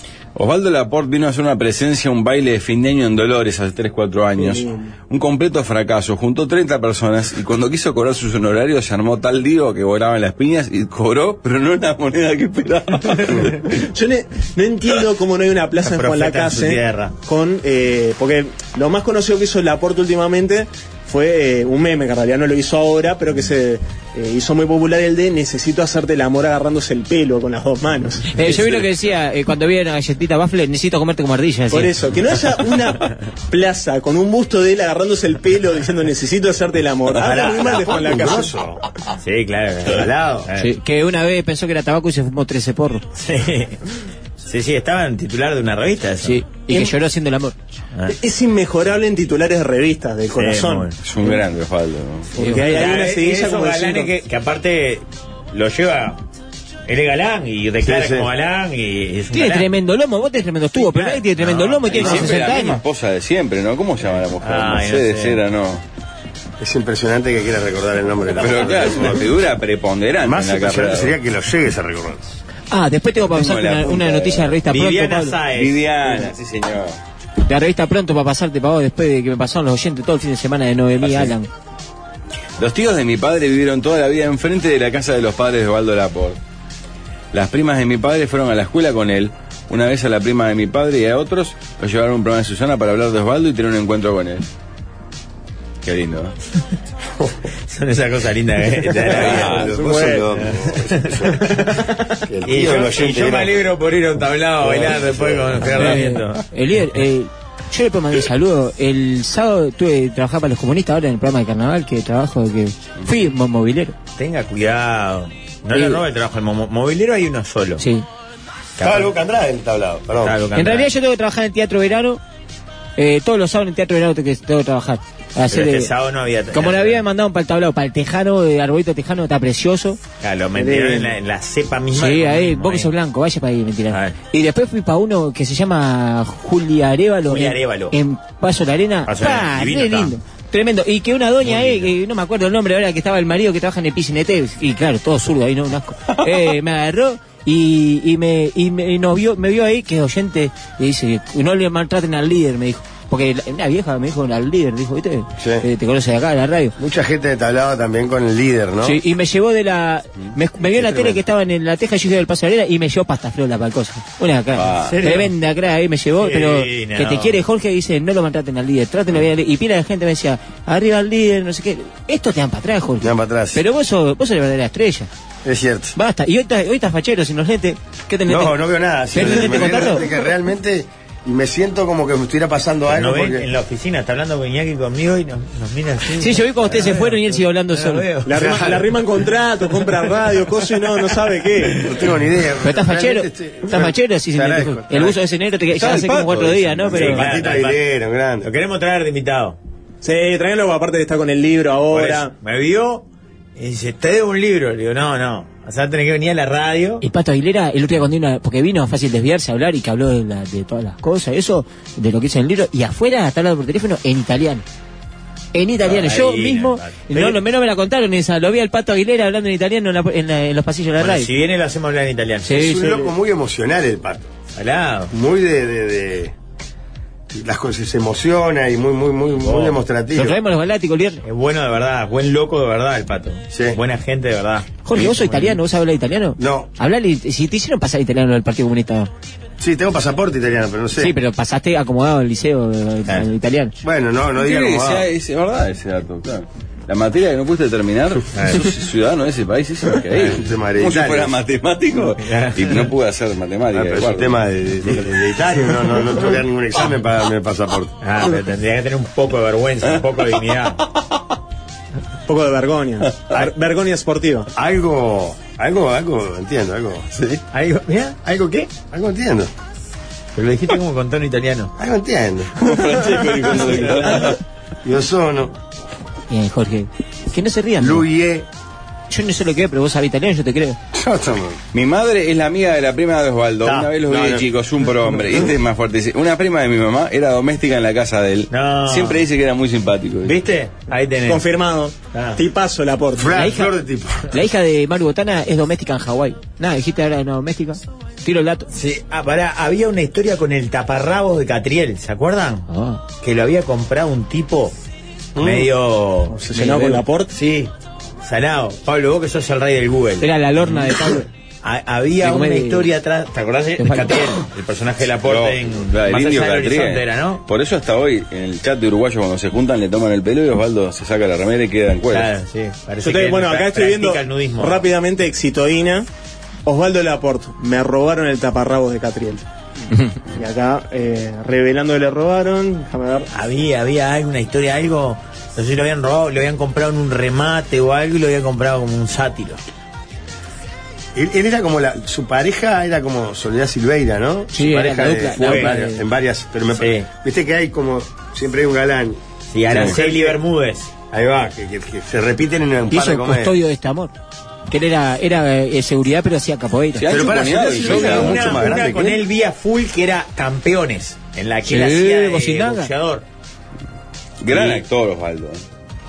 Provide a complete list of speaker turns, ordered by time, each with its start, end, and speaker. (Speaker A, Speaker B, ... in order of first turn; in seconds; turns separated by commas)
Speaker A: 0.3-13.7, Speaker B: 4.4-4.9, Speaker B: 13.7-28.4, Speaker C: 15.8-17.1, Speaker D: 28.3-31.9, Speaker B: 31.7-38.5, Speaker E: 37.2-38.8, Speaker C: 39.2-40.7, Speaker E: 39.9-40.5, Speaker D: 40.5-43.0, Speaker C: 43.1-43.8, Speaker C: 44.5-46.4, Speaker D: 46.2-47.5, Speaker B: 46.7-46.9, Speaker B: 48.1-50.9, Speaker C: 50.4-51.0, Speaker A: 51.0-52.3, Speaker B: 52.4-54.1, Speaker C: 52.4-56.2, Speaker C: 56.9-59.7, Speaker E: 57.8-58.3, Speaker D: 59.3-62.8, Speaker C: 60.7-62.4, Speaker A: 61.9-65.8, Speaker C: 64.4-65.4, Speaker E: 66.6-69.2, Speaker A: 68.4-71.1, Speaker E: 70.2-72.2, Speaker D: 72.7-75.4, Speaker A: 73.2-74.6, Speaker C: 74.7-76.1, Speaker A: 75.4-77.0, Speaker D: 77.4-81.5, Speaker A: 81.0-81.3, Speaker A: 82.6-86.4, Speaker A: 87.3-94.5, Speaker A: 95.8-96.3, Speaker C: 97.7-99.7, Speaker E: 99.0-101.7, Speaker A: 99.2-99.8, Speaker B: 99.5-100.3, Speaker C: 100.4-101.9, Speaker E: 102.2-103.6, Speaker C: 102.4-106.4, Speaker E: 104.6-105.8, Speaker D: 105.7-113.9, Speaker C: 114.2-117.8, Speaker D: 115.7-116.0, Speaker D: 117.8-118.0, Speaker C: 118.8-119.1, Speaker E: 118.8-120.4, Speaker C: 120.2-120.9, Speaker D: 120.5-122.2, Speaker D: 123.0-125.9, Speaker C: 125.5-127.0, Speaker D: 126.5-130.0, Speaker C: 130.2-132.9, Speaker D: 130.6-131.0, Speaker D: 131.9-156.8, Speaker C: 133.9-134.1, Speaker C: 137.3-137.9, Speaker C: 139.1-140.1, Speaker C: 141.4-141.9, Speaker E: 155.4-155.7, Speaker E: 156.8-159.0, Speaker D: 158.8-175.1, Speaker E: 160.7-161.2, Speaker A: 164.5-165.0, Speaker C: 164.8-165.3, Speaker C: 166.2-167.4, Speaker E: 173.0-173.6, Speaker E: 175.4-175.9, Speaker D: 175.9-180.1, Speaker E: 178.2-183.5, Speaker C: 182.9-188.9, Speaker D: 186.1-188.1, Speaker B: 188.2-191.9, Speaker E: 188.4-188.7, Speaker E: 191.7-195.1, Speaker D: 192.6-197.2, Speaker A: 195.7-197.1, Speaker E: 196.9-198.5, Speaker C: 196.9-197.8, Speaker C: 198.4-199.6, Speaker B: 200.0-202.3, Speaker C: 201.9-203.0, Speaker C: 203.6-207.0, Speaker D: 207.0-214.6, Speaker D: 215.5-221.3, Speaker C: 215.8-217.4, Speaker C: 221.0-222.6, Speaker D: 222.4-223.1, Speaker E: 222.5-224.3, Speaker C: 224.6-225.1, Speaker E: 225.1-226.3, Speaker E: 227.3-230.4, Speaker C: 229.4-229.8, Speaker D: 230.1-231.2, Speaker C: 231.2-235.6, Speaker E: 233.5-233.8, Speaker D: 234.8-239.1, Speaker E: 236.4-236.7, Speaker E: 239.6-241.1, Speaker D: 241.0-243.8, Speaker E: 243.8-245.1, Speaker A: 244.4-254.4, Speaker C: 248.3-248.7, Speaker E: 250.3-251.3, Speaker C: 252.2-252.9, Speaker E: 253.7-258.0, Speaker C: 258.0-260.8, Speaker B: 262.2-264.5, Speaker E: 264.5-267.1, Speaker C: 267.5-268.2, Speaker E: 268.2-269.5, Speaker C: 270.3-271.7, Speaker E: 271.8-272.5, Speaker A: 272.6-274.4, Speaker E: 274.8-275.5, Speaker D: 276.3-278.1, Speaker E: 277.8-278.5, Speaker D: 279.1-280.8, Speaker E: 280.9-281.6, Speaker A: 281.7-290.4, Speaker C: 283.6-284.4, Speaker C: 288.5-289.2, Speaker C: 290.2-291.4, Speaker B: 291.2-293.4, Speaker C: 292.1-292.4, Speaker E: 293.1-294.3, Speaker D: 293.3-293.8, Speaker D: 294.3-298.7, Speaker C: 298.7-302.7, Speaker D: 302.7-303.0, Speaker C: 303.2-304.7, Speaker E: 305.3-305.7, Speaker C: 305.4-306.4, Speaker B: 306.3-307.3, Speaker D: 306.5-307.0, Speaker C: 307.3-307.7, Speaker C: 308.2-310.9, Speaker D: 310.2-311.3, Speaker C: 311.6-317.4, Speaker D: 312.2-312.9, Speaker D: 313.8-314.1, Speaker A: 315.2-322.3, Speaker C: 322.1-324.9, Speaker B: 323.0-326.1, Speaker B: 326.6-329.4, Speaker B: 330.3-333.3, Speaker C: 333.3-339.6, Speaker E: 341.1-349.2, Speaker D: 344.5-346.0, Speaker C: 345.3-345.8, Speaker C: 346.8-347.1, Speaker C: 349.5-350.9, Speaker E: 349.7-350.4, Speaker E: 351.1-353.6, Speaker D: 352.9-354.1, Speaker D: 354.7-357.1, Speaker A: 356.9-358.6, Speaker E: 357.0-359.2, Speaker C: 357.6-363.2, Speaker D: 361.6-362.9, Speaker A: 364.4-365.6, Speaker C: 364.5-364.8